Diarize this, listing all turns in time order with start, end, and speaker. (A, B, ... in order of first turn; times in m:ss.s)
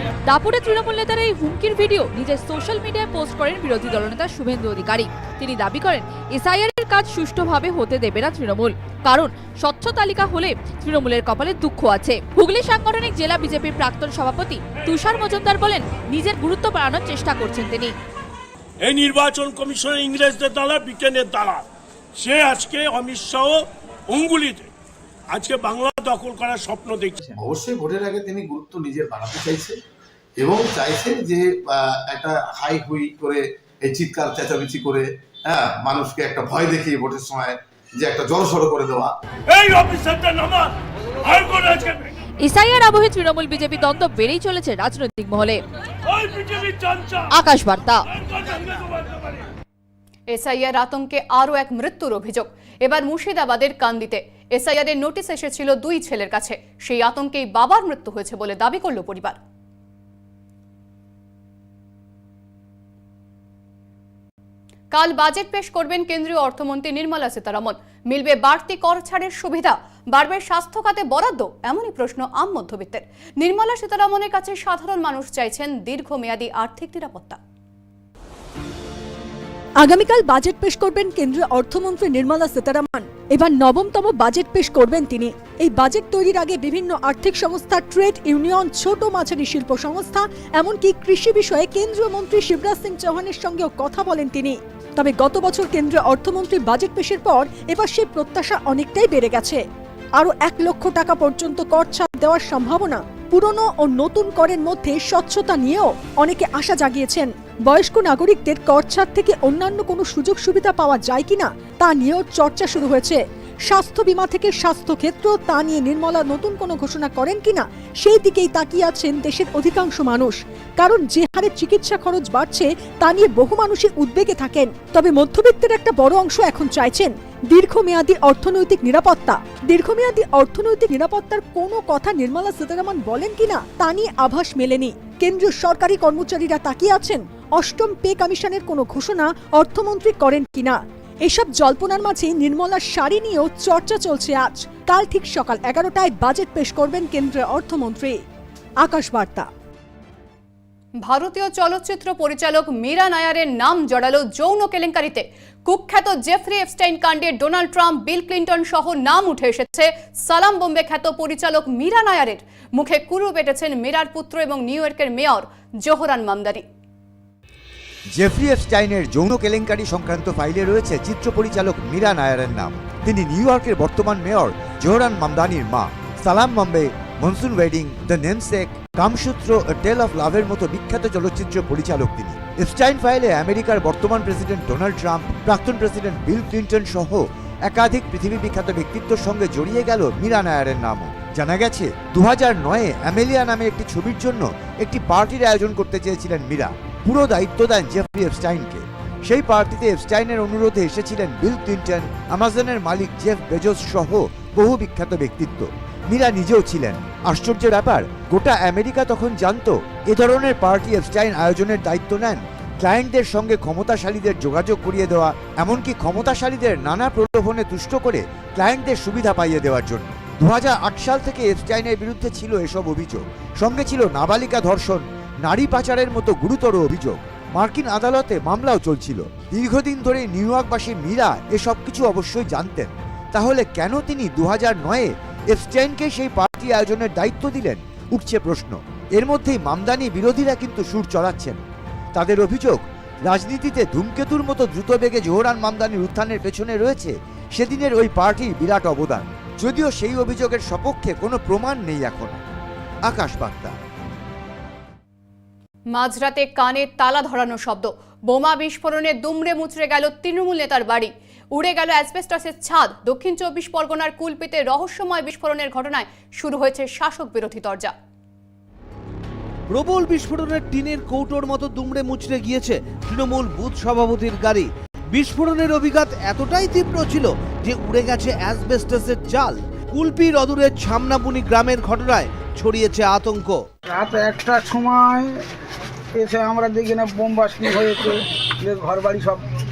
0:00.2-0:17.9 A
0:18.8-0:21.6 B
0:22.2-0:24.7 B
0:25.3-0:27.2 B
0:27.3-0:29.8 C
0:30.4-0:39.1 C
0:39.5-0:42.1 B
0:42.4-0:45.6 A
0:46.1-0:47.3 B
0:47.3-0:48.0 A
0:48.1-0:49.5 B
0:50.3-0:59.3 D
1:04.9-1:17.4 D
1:19.8-1:39.6 E
1:40.2-2:28.2 E
2:28.8-2:29.5 E
2:31.0-2:46.6 D
2:48.1-4:01.6 F
4:02.1-4:12.4 F
4:13.0-4:13.8 F
4:15.9-4:27.9 D
4:29.7-4:43.6 G
4:43.9-4:45.3 H
4:46.2-4:49.4 H